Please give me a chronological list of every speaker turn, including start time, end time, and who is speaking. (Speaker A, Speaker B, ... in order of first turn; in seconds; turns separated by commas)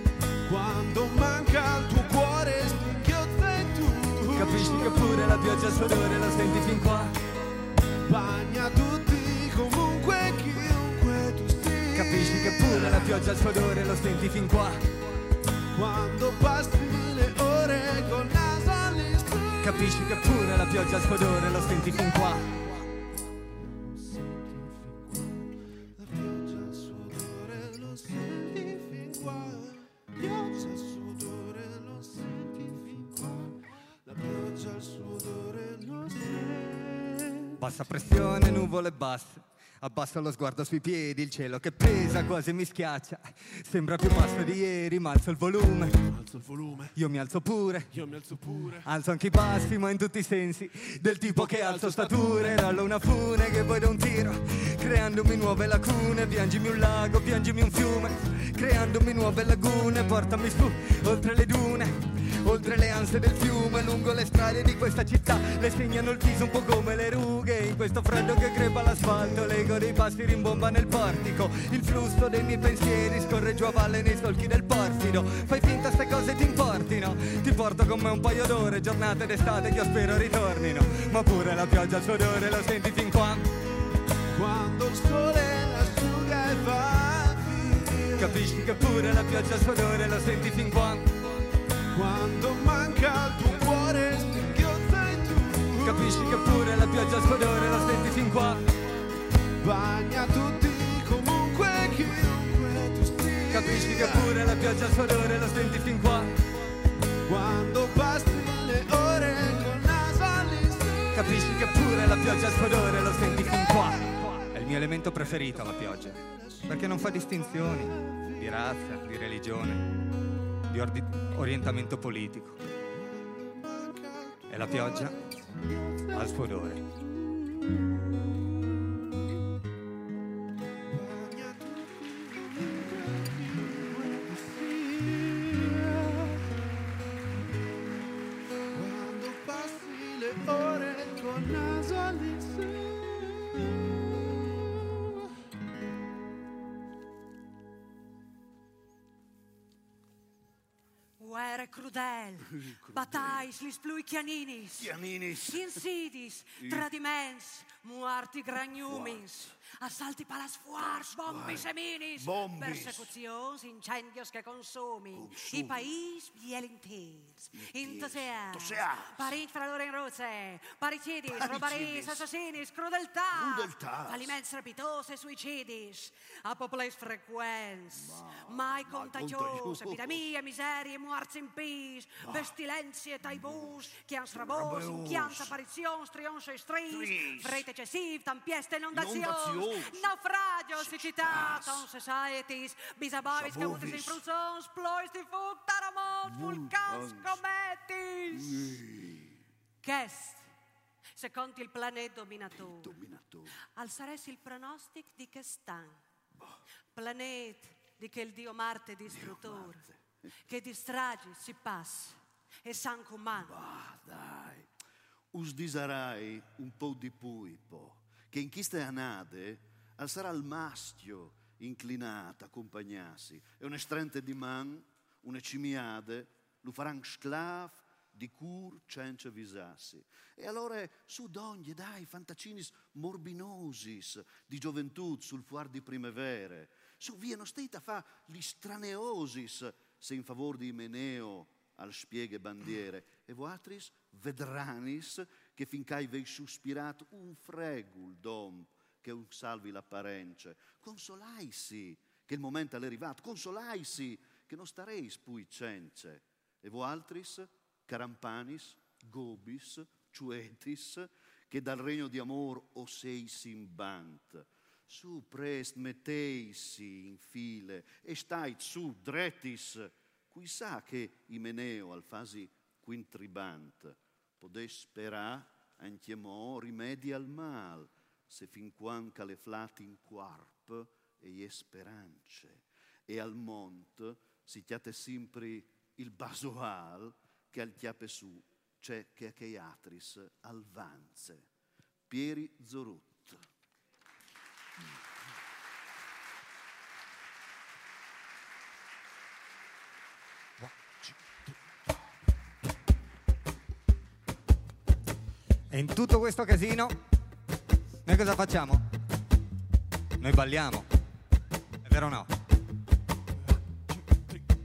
Speaker A: 0.5-5.0, Speaker B: 4.3-7.1, Speaker A: 8.0-13.3, Speaker B: 11.9-14.9, Speaker A: 15.7-20.1, Speaker B: 19.6-22.6, Speaker A: 23.9-25.4, Speaker A: 26.0-37.5, Speaker B: 37.6-46.0, Speaker A: 46.1-46.9, Speaker B: 47.0-47.9, Speaker A: 47.9-48.9, Speaker B: 48.9-83.5, Speaker A: 51.3-52.6, Speaker A: 84.3-88.7, Speaker B: 88.2-91.1, Speaker A: 91.9-96.5, Speaker B: 95.8-98.6, Speaker A: 99.6-104.4, Speaker B: 103.5-106.3, Speaker A: 107.3-111.8, Speaker B: 111.1-119.9, Speaker A: 112.8-114.5, Speaker A: 115.4-118.5, Speaker B: 120.7-122.6, Speaker A: 123.0-126.3, Speaker B: 124.5-125.2, Speaker B: 126.1-126.8, Speaker A: 130.9-136.4, Speaker A: 138.7-143.7, Speaker A: 144.7-145.2, Speaker C: 151.2-198.7, Speaker D: 152.5-153.5, Speaker D: 154.8-155.7, Speaker D: 156.6-156.9, Speaker D: 158.9-159.5, Speaker D: 160.8-163.1, Speaker D: 165.1-165.9, Speaker D: 167.5-169.3, Speaker D: 171.3-172.3, Speaker D: 173.3-174.3, Speaker D: 177.9-180.2, Speaker D: 182.2-182.5, Speaker D: 183.4-183.7, Speaker D: 184.3-185.6, Speaker D: 186.9-187.6, Speaker D: 188.9-190.1, Speaker D: 190.8-191.8, Speaker D: 193.3-194.2, Speaker D: 196.3-197.4, Speaker D: 198.3-199.4, Speaker C: 199.8-200.4, Speaker C: 201.2-202.9, Speaker D: 202.6-203.5, Speaker C: 203.8-206.0, Speaker C: 206.9-209.8, Speaker D: 209.1-210.3, Speaker C: 210.5-213.6, Speaker D: 213.3-214.7, Speaker D: 215.3-291.5, Speaker D: 292.1-293.4, Speaker B: 305.7-307.0, Speaker B: 308.1-308.9, Speaker B: 310.2-310.9, Speaker B: 311.9-312.3